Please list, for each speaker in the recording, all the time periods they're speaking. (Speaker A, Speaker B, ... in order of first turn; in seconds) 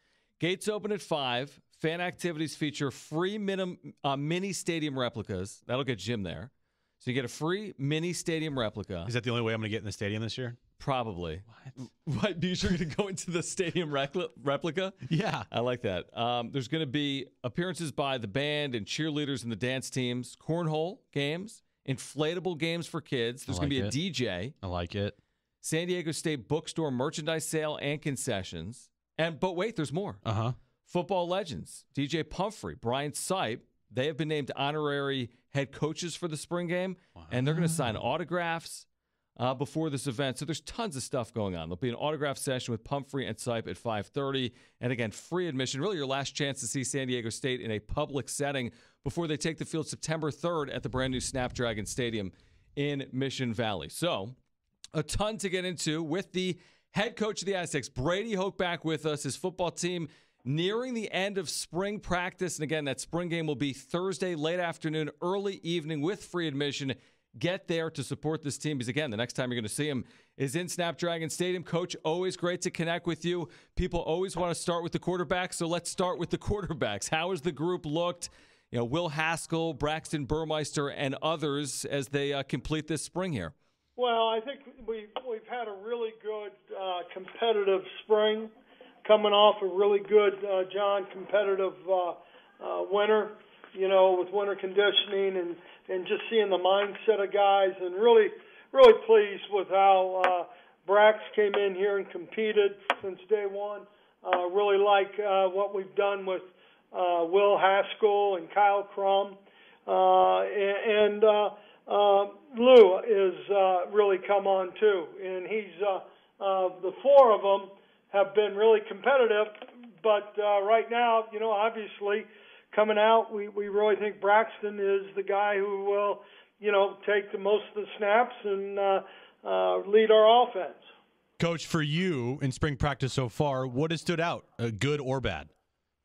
Speaker A: 0.4-6.5, 7.0-9.1, 10.8-24.5, 25.6-30.2, 30.9-38.9, 39.4-54.3, 54.9-83.5
Speaker B: 9.1-10.6, 15.1-15.5, 23.5-23.9, 24.6-25.1, 30.2-30.5, 37.2-37.9, 131.4-135.5
Speaker C: 84.0-88.5, 89.0-130.9